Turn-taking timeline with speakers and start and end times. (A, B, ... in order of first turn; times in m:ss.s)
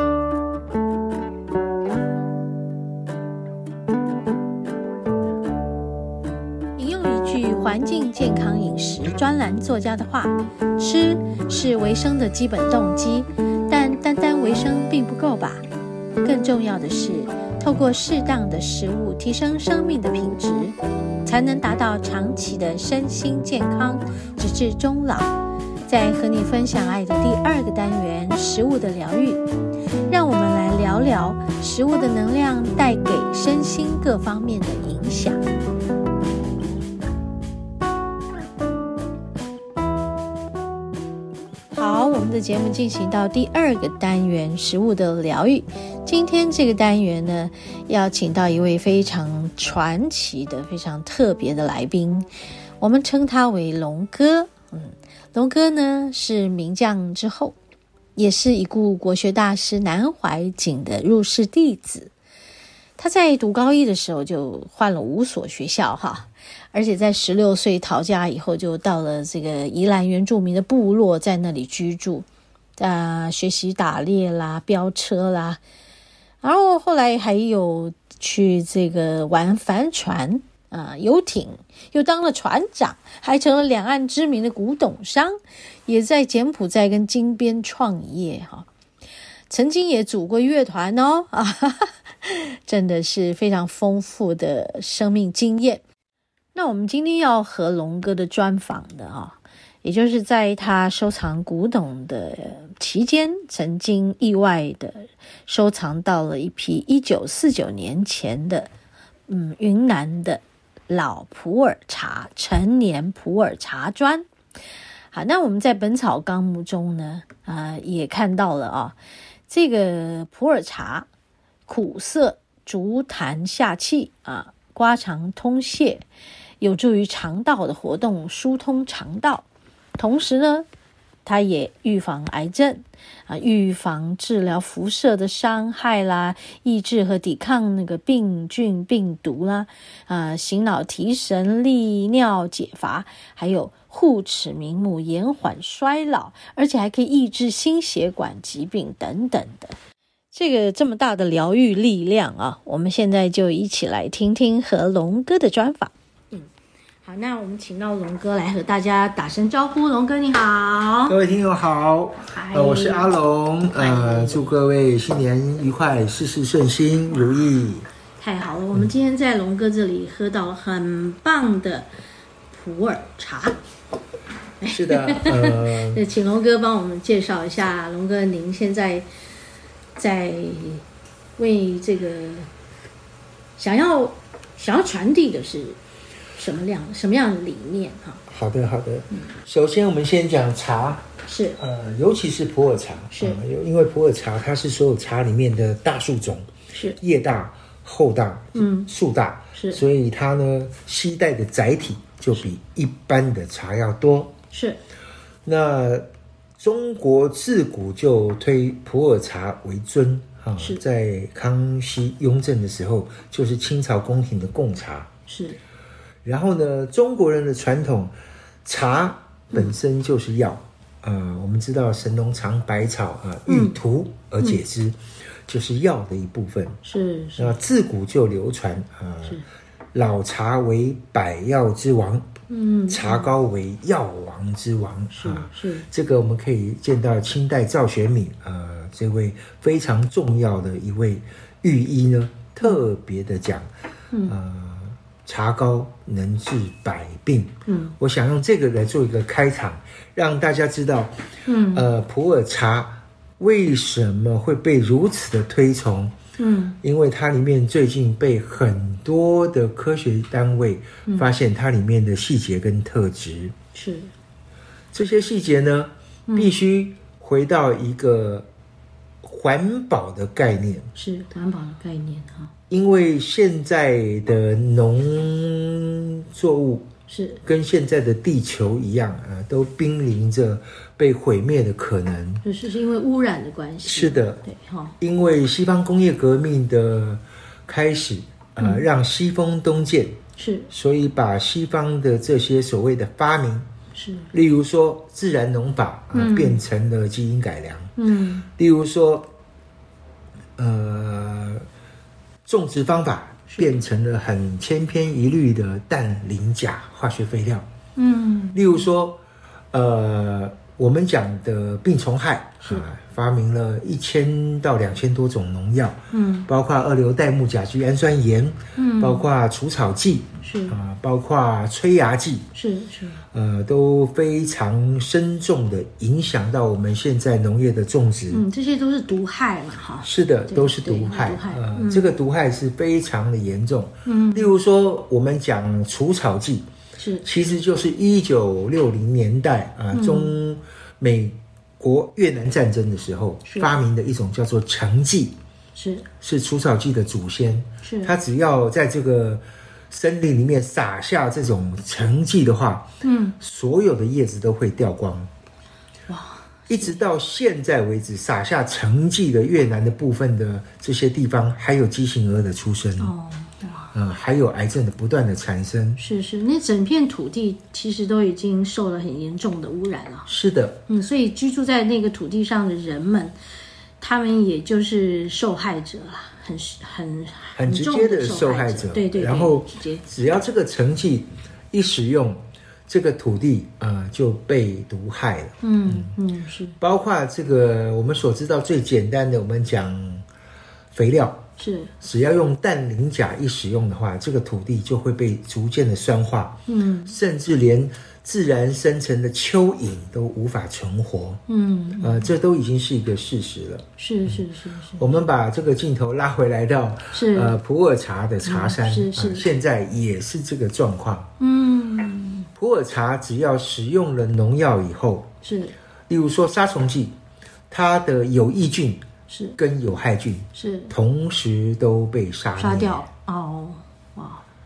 0:06.8-0:15.6 A
0:16.2-0:25.3 A
0:25.8-0:29.4 A
0:30.1-0:35.4 A
0:41.7-0:52.3 A
0:52.8-0:57.6 A
0:58.2-1:02.1 A
1:03.0-1:15.6 A
1:16.4-1:25.4 A
1:25.9-1:28.7 A
1:29.5-1:35.8 A
1:36.5-1:48.7 A
1:49.3-1:54.2 A
1:55.1-1:59.0 A
1:59.5-2:01.1 A
2:01.7-2:06.0 A
2:06.6-2:09.4 A
2:10.0-2:10.7 A
2:11.2-2:29.8 A
2:30.3-2:36.5 A
2:37.0-2:41.2 A
2:41.1-2:47.9 B
2:42.3-2:43.1 A
2:43.7-2:44.6 A
2:48.2-2:51.9 A
2:52.5-2:53.6 A
2:54.6-2:59.1 A
2:54.7-2:56.0 B
3:00.0-3:00.8 A
3:01.4-3:02.5 A
3:03.6-3:05.8 A
3:06.4-3:08.2 A
3:08.3-3:16.5 B
3:11.2-3:11.6 A
3:13.1-3:13.4 A
3:16.7-3:17.0 A
3:17.0-3:24.3 B
3:18.5-3:18.9 A
3:19.5-3:19.8 A
3:24.5-3:24.8 A
3:25.4-3:26.1 B
3:26.6-3:35.1 B
3:30.6-3:30.8 A
3:35.3-3:35.6 A
3:36.2-3:46.8 B
3:43.5-3:43.8 A
3:46.8-3:47.6 A
3:47.4-3:49.4 B
3:49.9-3:52.3 B
3:52.5-3:53.3 A
3:52.9-4:03.7 B
3:55.1-3:55.8 A
4:04.1-4:04.4 A
4:04.2-4:16.1 B
4:07.6-4:07.9 A
4:11.4-4:11.9 A
4:16.4-4:16.8 A
4:16.8-4:23.5 B
4:23.7-4:24.1 A
4:24.9-4:28.5 B
4:26.3-4:26.5 A
4:29.2-4:30.9 B
4:30.9-4:32.5 A
4:32.7-4:36.9 B
4:37.1-4:37.4 A
4:37.4-4:42.4 B
4:42.4-4:45.0 A
4:43.8-4:44.4 B
4:45.0-4:50.2 B
4:48.6-4:48.9 A
4:50.4-4:50.7 A
4:50.7-4:53.7 B
4:53.9-4:54.3 A
4:54.3-4:57.9 B
4:56.1-4:56.6 A
4:58.0-4:58.5 A
4:58.6-4:59.3 B
5:00.6-5:01.6 B
5:02.4-5:07.7 B
5:08.0-5:08.6 A
5:08.5-5:09.2 B
5:09.7-5:22.5 B
5:16.1-5:16.5 A
5:18.8-5:19.2 A
5:20.4-5:20.8 A
5:22.5-5:23.2 A
5:23.3-5:28.4 B
5:28.3-5:32.1 A
5:30.0-5:36.7 B
5:34.0-5:34.5 A
5:37.0-5:37.2 A
5:37.2-5:45.4 B
5:39.9-5:40.3 A
5:43.5-5:43.7 A
5:45.7-5:46.1 A
5:46.2-5:55.3 B
5:47.8-5:48.1 A
5:53.0-5:53.4 A
5:56.1-5:57.0 A
5:56.7-6:03.1 B
6:03.0-6:03.9 A
6:03.9-6:06.0 B
6:06.0-6:10.3 A
6:10.3-6:10.8 B
6:10.9-6:13.4 A
6:14.0-6:20.0 A
6:17.6-6:26.1 B
6:25.6-6:26.8 A
6:26.8-6:30.2 B
6:30.9-6:31.5 B
6:31.6-6:31.9 A
6:32.0-6:41.4 B
6:36.7-6:37.1 A
6:41.5-6:42.3 A
6:42.0-6:44.4 B
6:44.0-6:45.1 A
6:45.0-6:51.3 B
6:47.1-6:47.5 A
6:48.4-6:49.5 A
6:51.4-6:52.5 A
6:52.6-6:55.3 B
6:55.4-6:55.7 A
6:56.1-6:57.2 B
6:57.7-6:59.0 B
6:59.3-6:59.6 A
6:59.6-7:03.0 B
7:00.5-7:00.9 A
7:02.6-7:04.4 A